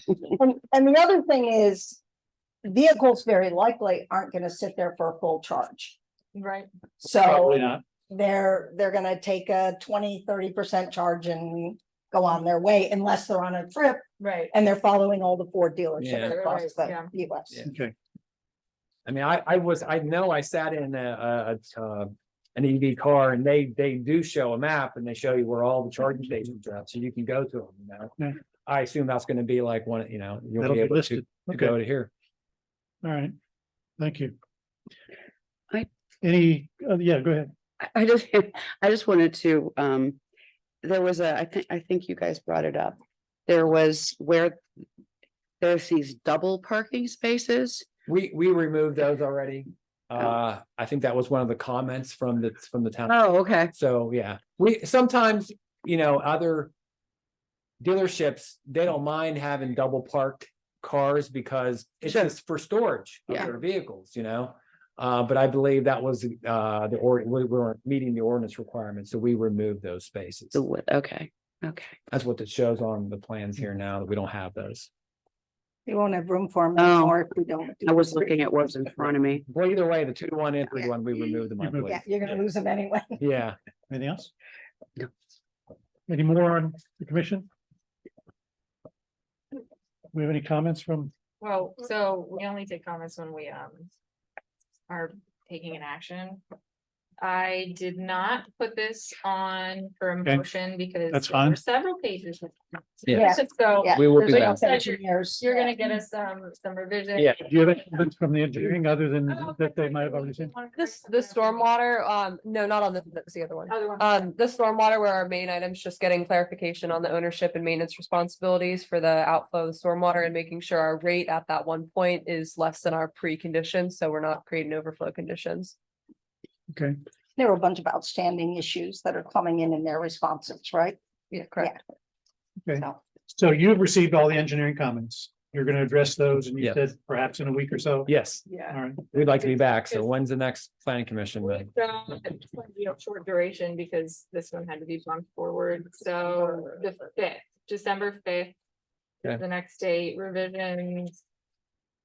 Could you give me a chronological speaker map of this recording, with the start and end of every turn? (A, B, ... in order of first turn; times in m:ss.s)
0:00.3-0:02.0 A
0:02.6-0:06.0 A
0:06.3-0:06.7 B
0:07.0-0:17.7 A
0:07.2-0:07.8 C
0:14.2-0:14.5 B
0:16.0-0:16.4 D
0:16.1-0:17.1 B
0:17.7-0:17.9 C
0:19.1-0:32.1 D
0:30.6-0:31.8 C
0:33.0-0:33.4 C
0:34.0-0:34.4 C
0:36.2-0:37.5 C
0:37.8-0:40.2 E
0:40.8-0:44.6 E
0:45.6-0:47.9 E
0:48.1-0:56.7 D
0:53.1-0:53.7 E
0:57.8-1:10.7 D
1:02.0-1:02.3 E
1:10.5-1:12.0 E
1:12.1-1:14.9 D
1:15.9-1:18.4 A
1:16.8-1:17.2 E
1:17.8-1:19.4 E
1:19.5-1:22.3 D
1:20.8-1:23.2 A
1:21.6-1:22.0 C
1:23.2-1:23.6 D
1:23.9-1:24.3 C
1:26.1-1:27.5 C
1:30.1-1:31.1 C
1:31.4-1:33.9 B
1:34.9-1:36.4 B
1:37.2-1:47.3 B
1:41.1-1:41.6 C
1:43.1-1:43.3 D
1:43.1-1:45.8 A
1:43.9-1:44.6 D
1:47.4-1:50.5 C
1:49.3-1:51.7 B
1:50.8-2:05.7 F
1:53.7-1:54.2 B
2:06.7-2:07.0 C
2:07.4-2:11.0 A
2:11.3-2:11.7 F
2:11.6-2:11.8 A
2:12.6-2:18.1 C
2:16.6-2:16.8 D
2:18.1-2:21.7 D
2:18.5-2:20.1 B
2:18.6-2:19.1 C
2:21.4-2:28.6 B
2:29.2-2:31.1 B